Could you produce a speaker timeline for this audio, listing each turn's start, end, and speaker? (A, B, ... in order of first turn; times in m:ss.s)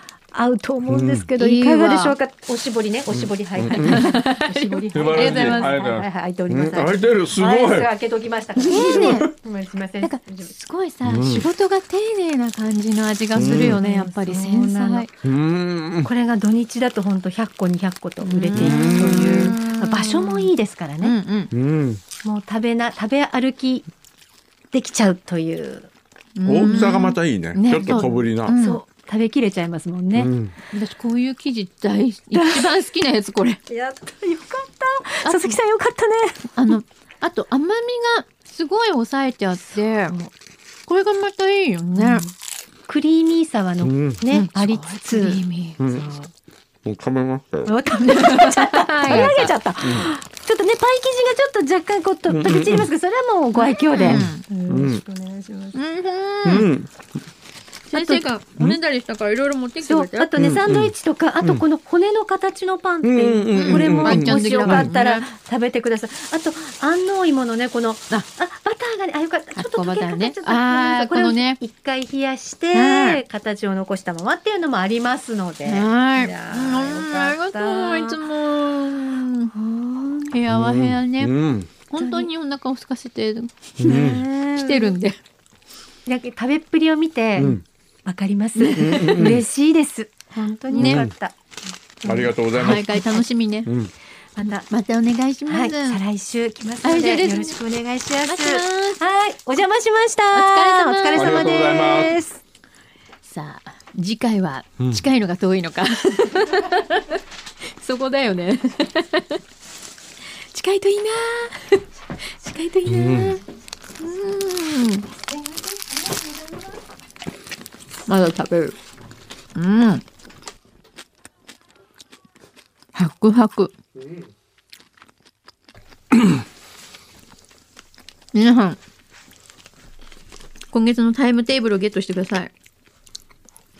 0:00.3-0:10.5 A
0:00.9-0:01.3 B
0:01.4-0:02.2 C
0:03.1-0:04.1 B
0:03.7-0:05.8 C
0:04.9-0:07.9 B
0:08.6-0:09.3 C
0:08.7-0:09.3 B
0:10.0-0:15.1 C
0:11.0-0:11.5 B
0:13.3-0:13.8 B
0:13.3-0:15.1 A
0:15.2-0:16.1 B
0:16.0-0:21.1 A
0:18.2-0:21.5 C
0:18.5-0:19.6 B
0:21.5-0:22.0 B
0:22.2-0:23.9 A
0:24.7-0:25.9 A
0:26.4-0:28.8 C
0:26.4-0:28.6 B
0:26.6-0:27.0 A
0:27.7-0:30.3 A
0:30.1-0:30.5 B
0:30.7-0:33.6 C
0:32.3-0:32.7 A
0:33.7-0:36.7 A
0:35.2-0:35.6 C
0:36.6-0:40.2 C
0:40.9-0:42.2 C
0:42.0-0:42.3 A
0:42.9-0:46.1 A
0:43.8-0:44.2 B
0:44.3-0:46.1 C
0:45.8-0:46.1 B
0:46.8-0:47.8 B
0:47.6-0:55.8 A
0:47.9-0:50.0 C
0:49.8-0:50.1 B
0:52.3-0:52.9 B
0:53.6-0:54.4 C
0:54.0-0:55.0 B
0:55.7-0:56.7 C
0:56.4-0:57.1 B
0:57.9-0:58.3 A
0:57.9-1:00.3 C
0:59.8-1:18.2 A
1:00.4-1:01.6 B
1:03.0-1:04.9 B
1:03.5-1:05.3 C
1:09.6-1:11.6 C
1:12.7-1:13.2 C
1:15.6-1:19.5 C
1:19.5-1:20.4 A
1:20.3-1:21.3 C
1:20.5-1:21.7 B
1:21.9-1:25.2 C
1:22.0-1:22.3 A
1:23.8-1:24.2 B
1:23.8-1:24.9 A
1:26.0-1:31.4 A
1:27.4-1:27.6 B
1:28.6-1:29.4 C
1:28.7-1:29.4 B
1:30.7-1:31.0 C
1:30.8-1:31.1 B
1:32.0-1:33.2 A
1:32.0-1:32.9 B
1:32.6-1:33.7 C
1:33.6-1:33.9 B
1:34.4-1:34.7 A
1:34.7-1:36.0 C
1:35.5-1:42.4 A
1:36.8-1:37.6 C
1:38.3-1:39.0 C
1:40.3-1:41.7 C
1:41.1-1:42.2 B
1:43.2-1:47.2 C
1:47.8-1:49.4 C
1:50.5-1:51.8 C
1:52.4-1:53.4 C
1:52.8-1:53.4 B
1:54.0-1:55.1 C
1:58.1-1:58.8 C
1:59.5-2:00.0 C
2:02.9-2:03.7 C
2:08.3-2:08.8 C
2:10.7-2:12.5 C